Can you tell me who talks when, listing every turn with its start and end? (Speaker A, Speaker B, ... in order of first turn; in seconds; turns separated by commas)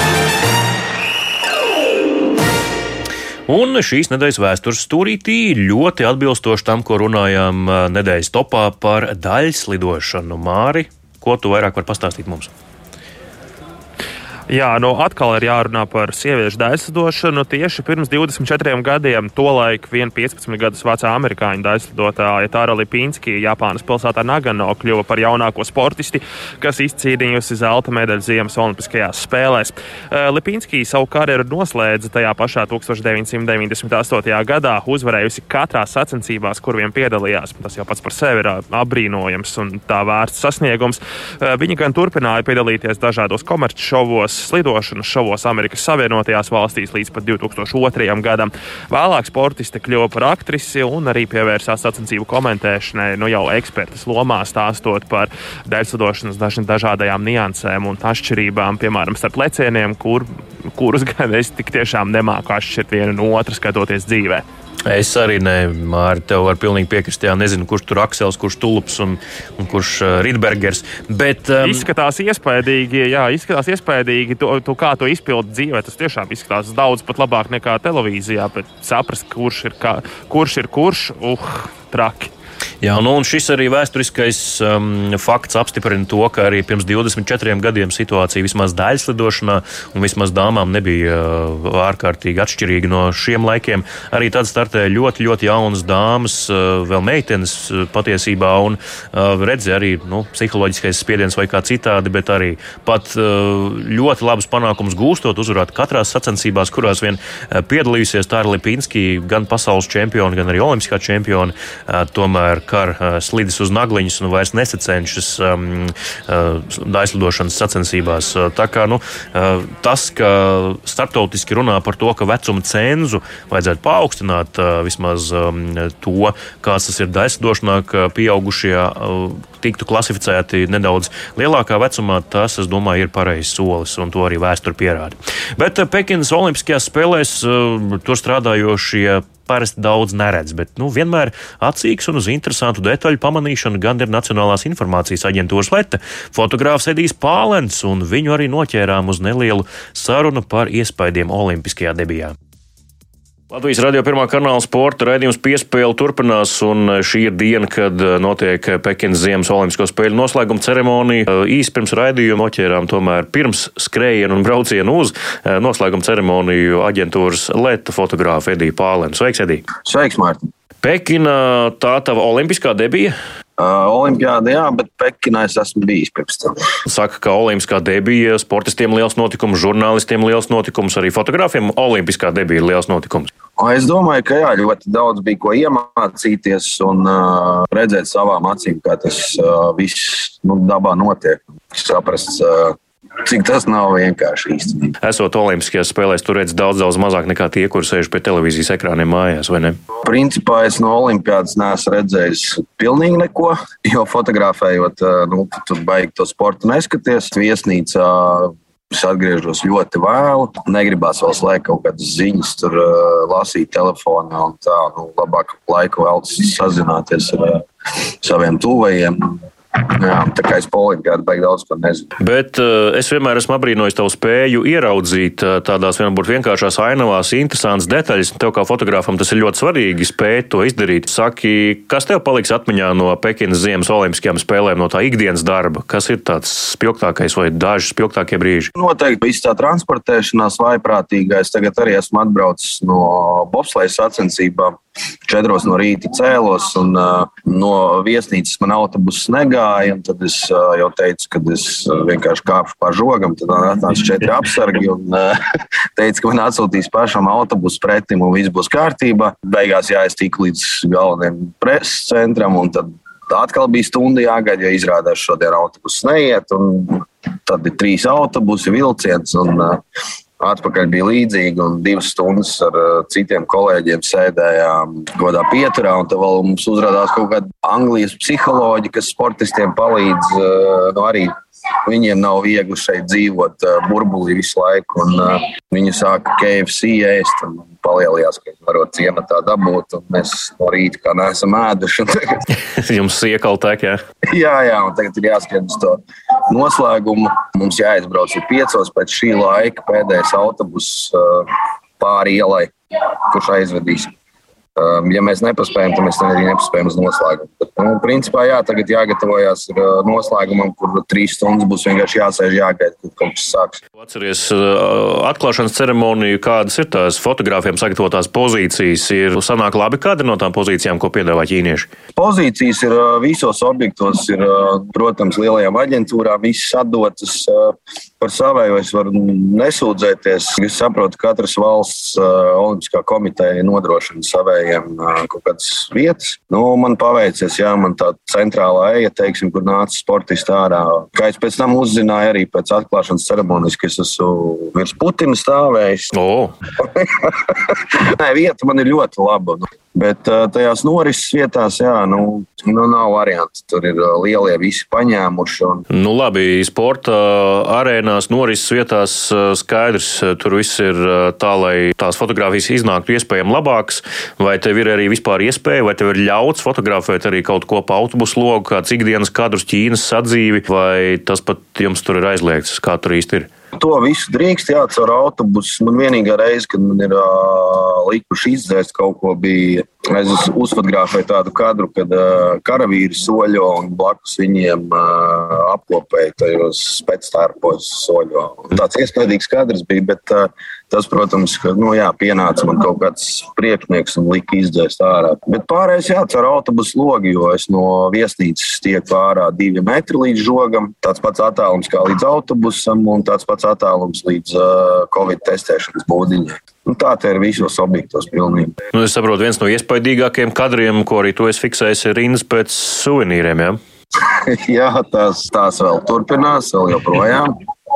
Speaker A: 3.5-12.5, Speaker B: 14.5-64.4, Speaker A: 64.8-71.9, Speaker B: 71.6-82.3, Speaker A: 82.8-152.3, Speaker A: 153.5-169.6, Speaker C: 169.8-170.5, Speaker A: 170.8-173.1, Speaker C: 173.6-176.6, Speaker A: 176.8-183.3, Speaker C: 183.6-194.9, Speaker A: 195.0-199.8, Speaker C: 200.0-217.7, Speaker C: 218.2-222.1, Speaker A: 222.2-238.7, Speaker C: 238.8-255.4, Speaker C: 255.9-269.8, Speaker C: 270.4-292.4, Speaker A: 292.7-294.0, Speaker C: 294.3-302.7, Speaker C: 303.3-304.1, Speaker C: 304.8-313.8, Speaker A: 314.0-321.9, Speaker C: 322.1-346.1, Speaker A: 346.1-346.5, Speaker C: 346.8-355.9, Speaker A: 355.9-373.5, Speaker C: 373.8-408.7, Speaker A: 408.9-413.8, Speaker C: 414.2-417.6